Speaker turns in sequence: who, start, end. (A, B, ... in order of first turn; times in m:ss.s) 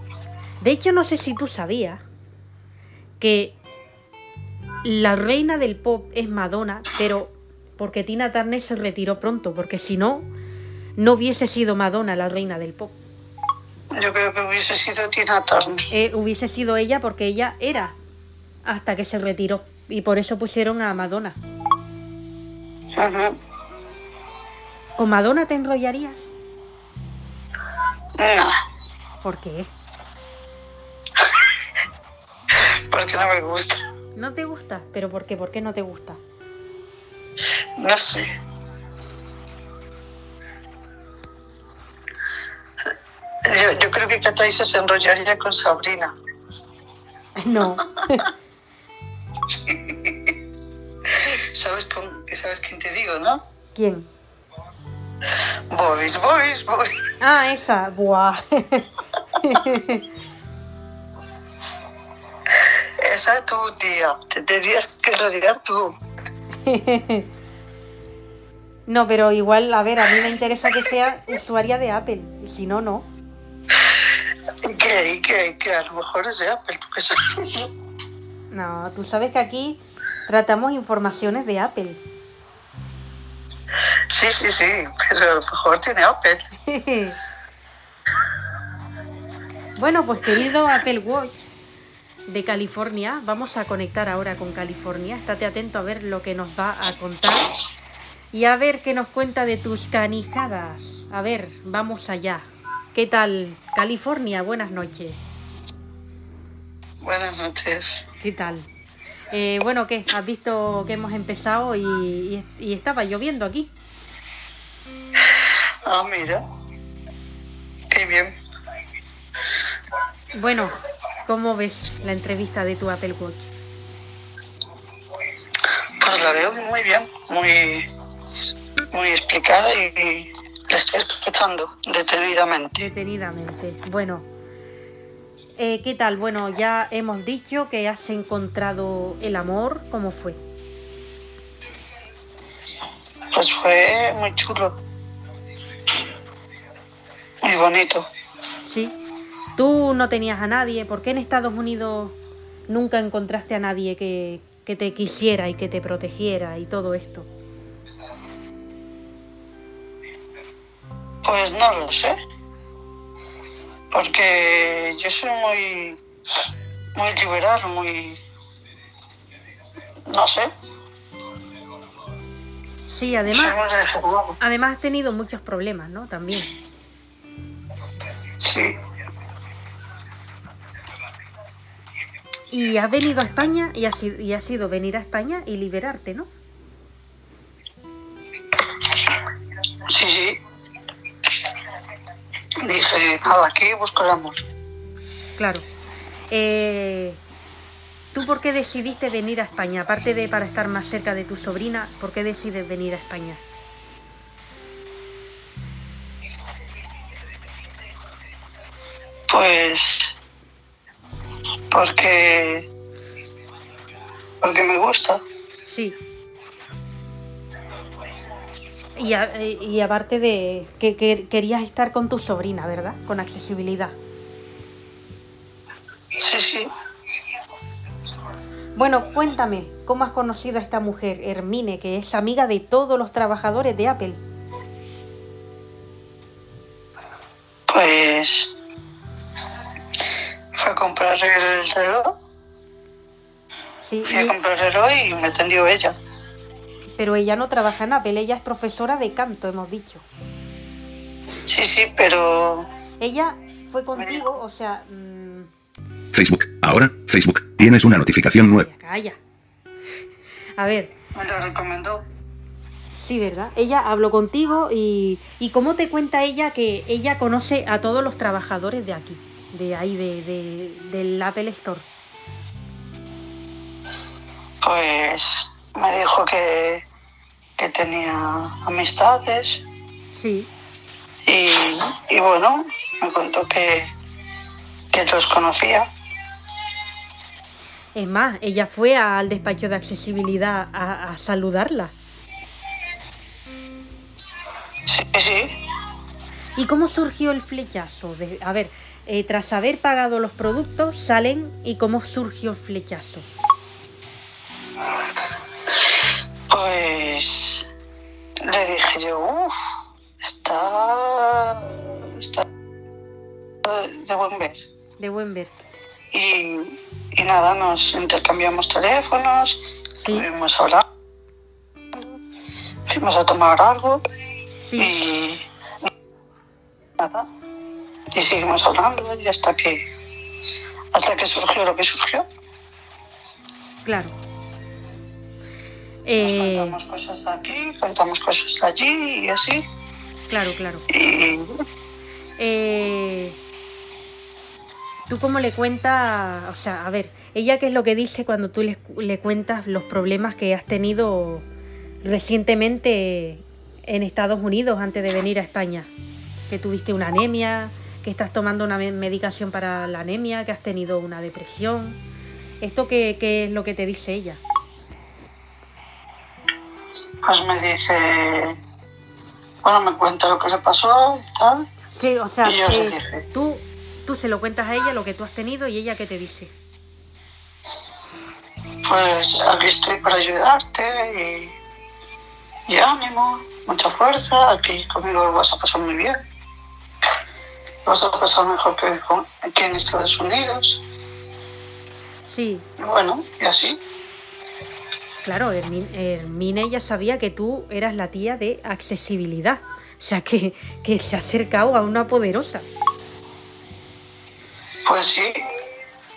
0:00.6-0:02.0 A
0:03.2-0:03.6 A
0:04.8-0:10.3 A
0:11.0-0:13.0 A
0:13.9-0:15.9 B
0:15.9-0:18.0 A
0:18.6-0:21.4 A
0:23.0-0:23.4 B
0:25.0-0:26.3 A
0:28.2-0:28.6 B
0:29.2-0:29.7 A
0:31.2-0:31.4 B
0:32.5-0:33.8 B
0:34.2-0:36.2 A
0:37.8-0:38.4 B
0:43.4-0:46.2 B
0:47.4-0:48.3 A
0:49.5-0:50.4 B
0:51.2-0:53.4 B
0:53.8-0:54.1 A
0:55.7-0:57.1 B
0:57.2-1:00.0 A
1:02.5-1:06.0 B
1:06.6-1:07.3 A
1:08.9-1:13.1 A
1:14.6-1:17.7 B
1:18.5-1:22.0 A
1:24.1-1:26.5 B
1:26.7-1:27.2 A
1:29.8-1:31.5 A
1:32.3-1:37.5 A
1:38.3-1:45.3 A
1:47.0-1:48.0 B
1:48.2-1:48.7 A
1:49.3-1:53.7 A
1:55.2-1:56.4 B
1:57.9-1:58.4 B
2:00.3-2:03.5 A
2:06.0-2:07.9 B
2:08.9-2:12.9 B
2:12.8-2:14.3 A
2:15.6-2:20.4 A
2:23.3-2:24.8 B
2:27.4-2:28.1 B
2:28.6-2:29.0 A
2:29.6-2:32.2 A
2:32.7-2:37.3 A
2:41.2-2:42.2 B
2:43.9-2:46.0 B
2:47.0-2:48.2 B
2:50.1-2:50.5 B
2:52.9-2:53.6 A
2:53.3-2:54.4 B
2:54.4-2:56.5 A
2:58.4-2:58.8 B
3:02.5-3:06.3 A
3:09.9-3:10.4 B
3:12.6-3:14.4 B
3:15.4-3:15.6 A
3:16.3-3:17.2 A
3:18.1-3:23.4 A
3:29.3-3:30.2 B
3:31.7-3:32.7 B
3:34.4-3:35.2 B
3:35.7-3:36.0 A
3:39.0-3:44.0 A
3:46.2-3:46.7 B
3:48.8-3:54.2 A
3:57.7-3:58.5 B
4:00.5-4:02.2 B
4:03.8-4:04.4 A
4:04.0-4:06.0 B
4:07.0-4:10.1 A
4:11.4-4:12.7 B
4:13.0-4:15.5 A
4:14.0-4:14.2 B
4:16.1-4:18.7 C
4:18.6-4:19.2 A
4:20.6-4:20.9 A
4:21.1-4:22.0 B
4:22.9-4:31.9 A
4:34.6-4:36.8 B
4:37.6-4:39.6 B
4:40.1-4:40.5 A
4:41.2-4:43.9 B
4:44.9-4:45.9 B
4:48.0-4:51.9 A
4:54.9-4:55.6 B
4:56.6-5:03.3 A
5:06.5-5:07.6 B
5:08.4-5:12.5 B
5:13.6-5:14.6 B
5:15.0-5:15.6 A
5:16.1-5:20.8 B
5:20.0-5:20.3 A
5:22.9-5:24.0 B
5:24.6-5:25.0 A
5:24.8-5:25.9 B
5:27.0-5:27.3 B
5:28.1-5:29.9 B
5:30.9-5:32.3 B
5:33.8-5:34.2 A
5:36.0-5:36.8 A
5:36.2-5:39.6 B
5:40.3-5:40.9 A
5:40.9-5:41.6 B
5:42.4-5:43.4 A
5:45.1-5:51.5 A
5:52.0-5:55.9 A
5:56.5-6:02.0 A
6:02.6-6:04.4 A
6:07.2-6:08.6 B
6:09.6-6:11.7 B
6:11.9-6:16.5 A
6:12.4-6:13.3 B
6:18.8-6:21.6 B
6:22.7-6:26.2 B
6:27.8-6:30.8 B
6:32.2-6:32.7 A
6:32.8-6:33.8 B
6:35.2-6:42.7 A
6:44.8-6:45.4 B